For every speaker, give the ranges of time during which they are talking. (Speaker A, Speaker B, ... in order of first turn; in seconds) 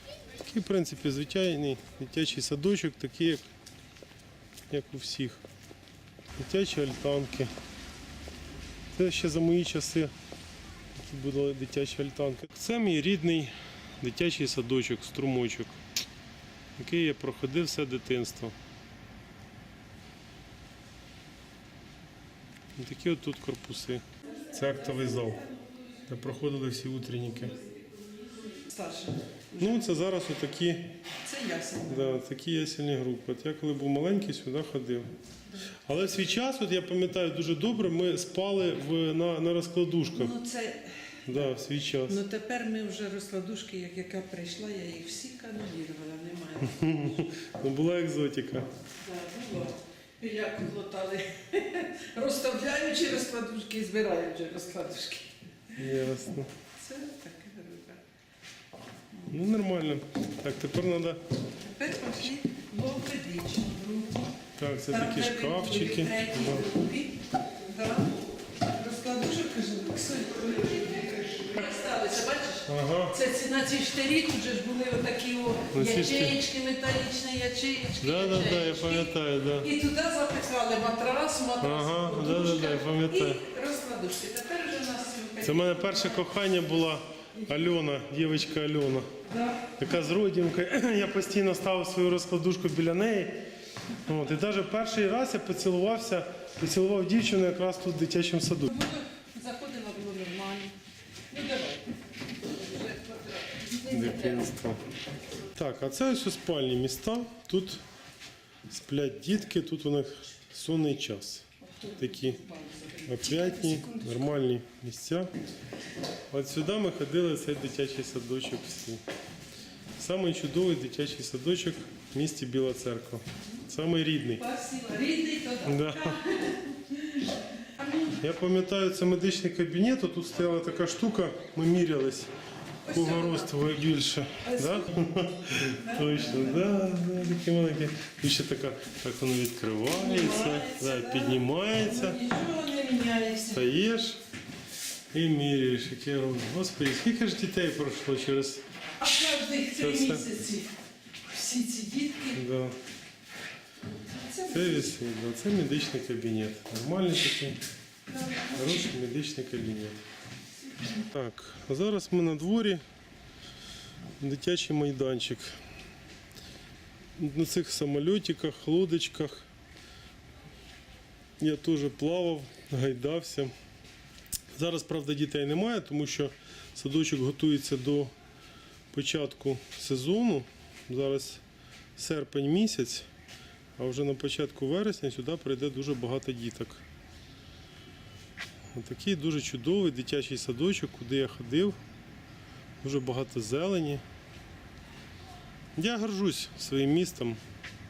Speaker A: 0.4-3.5, 4.7-5.4, 6.4-7.5, 8.9-10.1, 11.0-15.8, 16.8-18.6, 22.8-25.5, 26.1-27.6, 29.6-30.9, 31.9-35.1, 35.9-40.4, 41.3-42.2, 46.6-48.7, 55.8-56.5, 59.3-61.2, 64.6-66.7, 72.7-73.2, 75.7-76.4, 78.0-79.7, 81.6-83.4, 85.4-89.1, 89.8-93.4, 94.0-98.7, 103.9-104.8, 105.5-107.8, 108.7-111.5, 112.0-112.4, 113.0-115.3, 116.3-119.0, 120.0-124.4, 125.7-126.2, 128.2-132.3, 132.9-142.2, 143.5-144.2, 145.1-148.6, 149.8-150.3, 152.3-152.8, 154.5-157.6, 158.5-160.0, 161.0-162.8, 164.2-165.6, 167.2-169.5, 171.4-173.5, 174.5-178.1, 178.9-181.4, 182.0-183.1, 183.8-186.8, 188.7-191.8, 192.8-194.0, 195.8-197.4
Speaker B: 28.5-29.2, 31.2-32.2, 40.1-41.5, 42.0-47.1, 49.0-55.3, 56.8-58.0, 61.6-64.3, 64.9-86.3, 89.2-89.7, 98.7-100.8, 101.3-104.5, 111.7-114.3, 124.4-128.2, 132.8-133.5, 134.4-134.9, 135.7-136.7, 139.9-143.7, 149.0-150.7, 151.2-152.4, 153.8-154.9, 158.1-158.8